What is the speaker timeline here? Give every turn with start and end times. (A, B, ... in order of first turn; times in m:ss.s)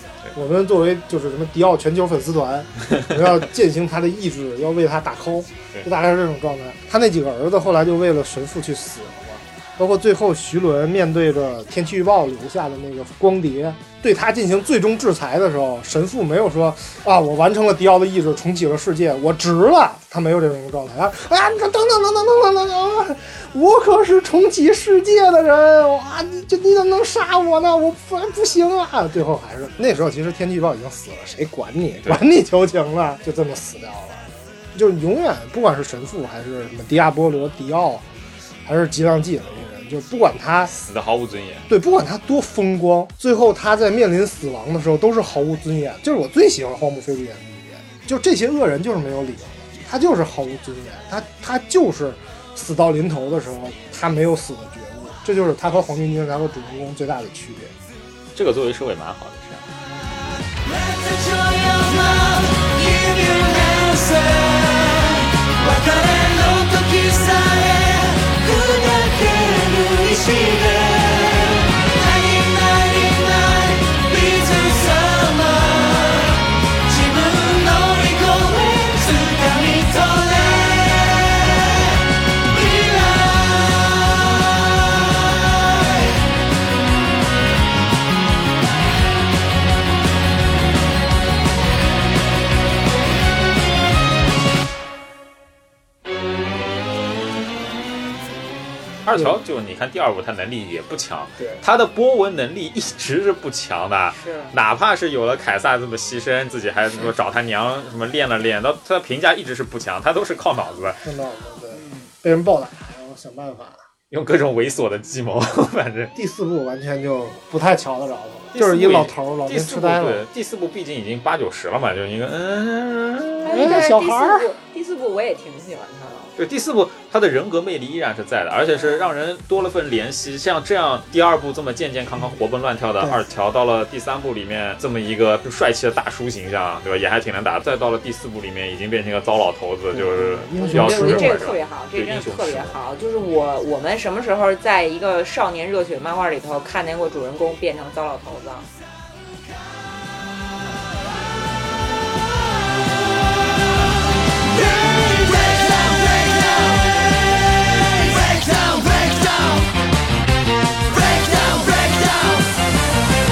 0:00.3-0:38.0 A
0:38.6-0:40.7 A
0:40.7-0:41.6 B
0:41.7-0:57.7 A
0:58.3-0:59.7 B
1:00.6-1:26.1 C
1:39.0-1:51.0 B
1:44.1-1:44.5 D
1:51.0-1:53.8 A
1:54.1-1:56.1 B
1:56.1-2:00.2 A
1:58.5-2:03.8 B
2:03.4-2:06.3 D
2:03.4-2:04.5 A
2:06.4-2:22.8 B
2:08.7-2:09.1 D
2:19.9-2:21.5 A
2:20.6-2:28.7 D
2:34.5-2:39.7 C
2:40.9-2:42.5 C